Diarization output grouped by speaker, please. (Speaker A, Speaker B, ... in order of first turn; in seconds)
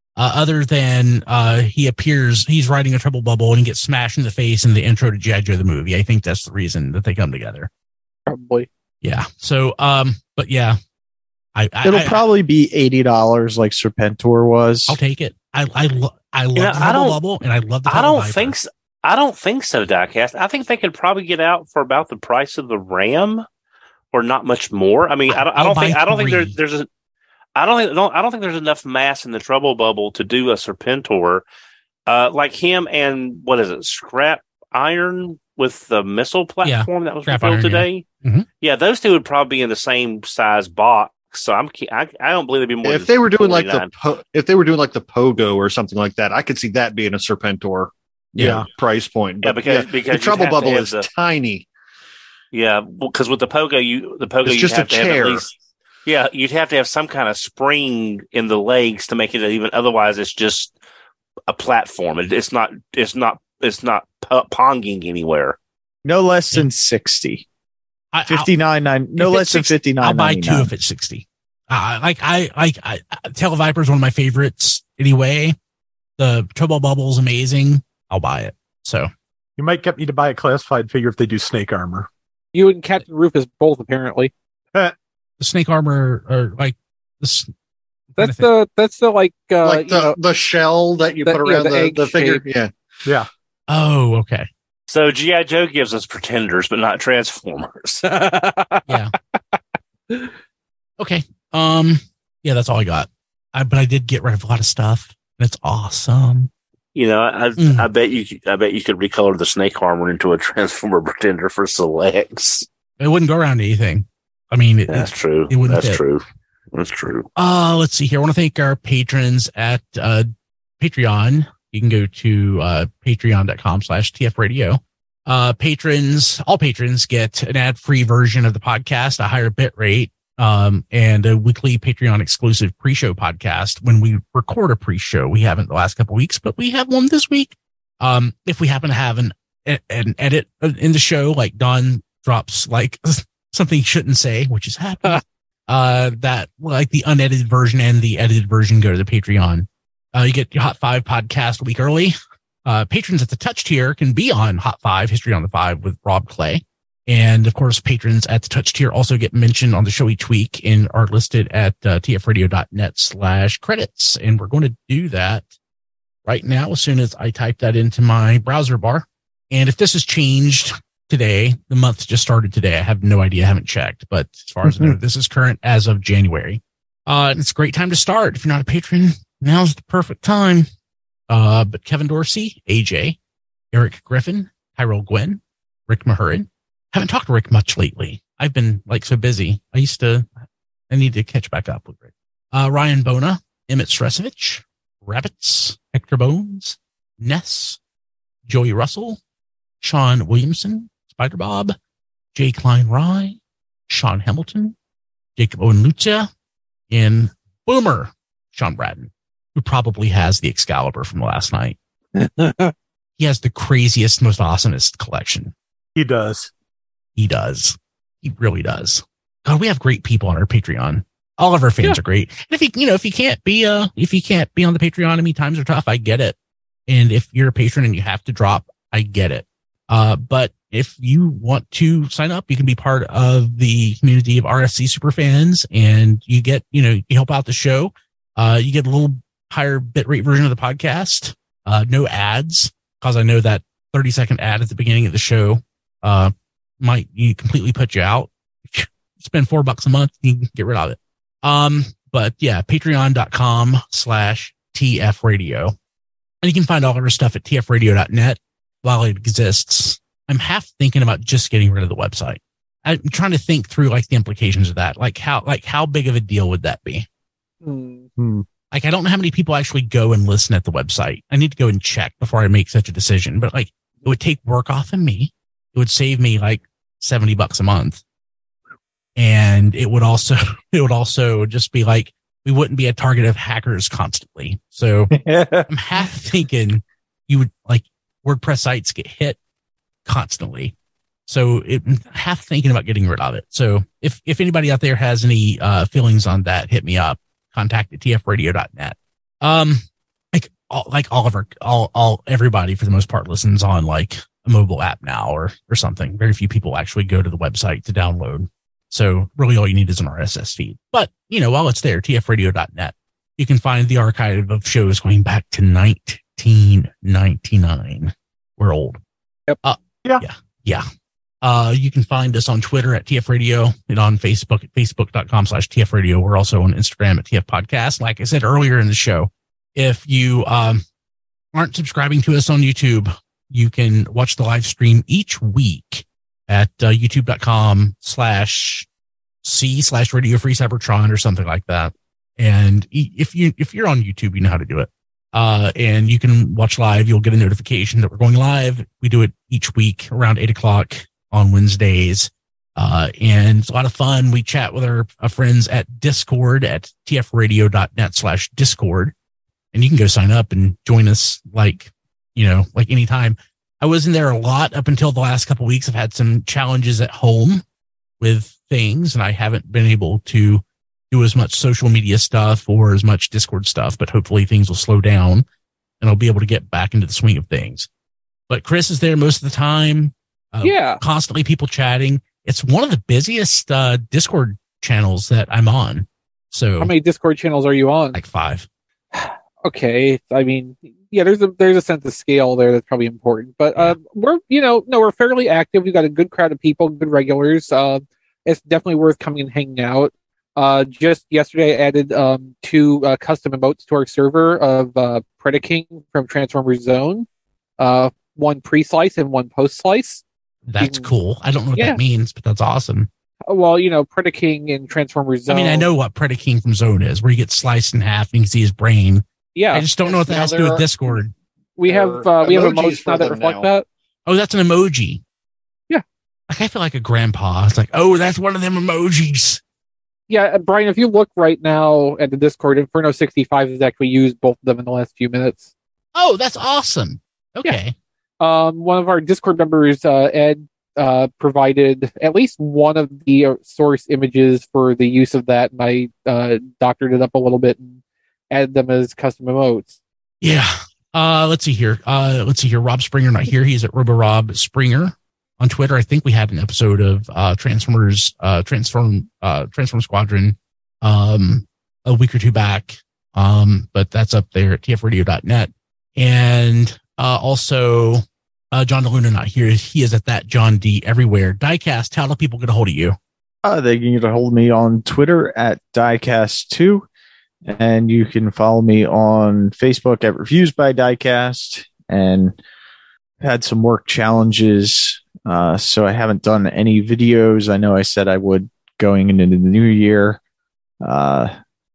Speaker A: 0.2-7.7, 9.0-10.8, 11.6-12.2, 14.9-18.6, 25.3-26.6, 36.6-38.5, 68.1-68.5, 69.2-75.6, 76.2-79.1, 85.4-87.5, 88.2-88.5, 93.7-94.5, 101.0-106.5, 107.6-107.9, 113.0-116.0, 117.4-120.3, 120.8-152.1, 152.7-165.5, 166.2-180.7, 181.3-183.2, 183.7-190.3, 190.9-197.8, 198.5-199.2, 199.8-201.8, 202.3-204.8, 205.4-206.3, 206.9-211.8, 213.2-215.5, 217.2-226.4, 226.9-255.7, 256.4-267.1, 268.7-278.0, 279.2-285.1, 285.7-289.4, 290.1-290.7, 291.3-319.0, 319.6-320.9, 321.4-330.8, 331.5-338.9, 339.4-359.1, 359.7-367.6, 368.2-375.4, 376.0-377.9, 378.5-386.9, 388.1-388.7, 410.7-413.1, 415.5-421.3, 424.3-425.2, 426.5-429.6, 436.1-437.9, 450.4-473.2
Speaker B: 8.3-8.7, 82.5-84.3, 88.2-90.2, 91.3-92.4, 98.1-99.6, 212.2-212.7, 267.6-268.1, 380.6-381.0, 386.8-388.2, 389.1-407.3, 407.8-410.2, 410.8-411.1, 411.8-412.0, 413.5-415.9, 419.6-419.9, 421.8-423.9, 430.3-435.7, 438.4-448.0, 448.5-450.0
Speaker C: 11.8-15.0, 66.0-67.5, 68.3-70.7, 174.6-175.0, 285.1-286.1, 473.6-477.1, 477.7-482.6, 483.4-490.4, 491.0-491.5
Speaker D: 16.6-17.2, 17.9-23.4, 24.1-26.9, 27.6-31.4, 32.1-38.1, 38.6-43.9, 49.4-51.1, 52.5-55.5, 56.1-60.7, 61.5-65.6, 94.9-98.1, 107.0-112.7, 114.9-117.3
Speaker E: 42.8-51.7, 54.5-55.5, 89.6-92.8, 420.0-420.9, 421.9-423.7
Speaker F: 48.4-48.7, 79.6-82.1, 215.9-216.5, 268.2-268.5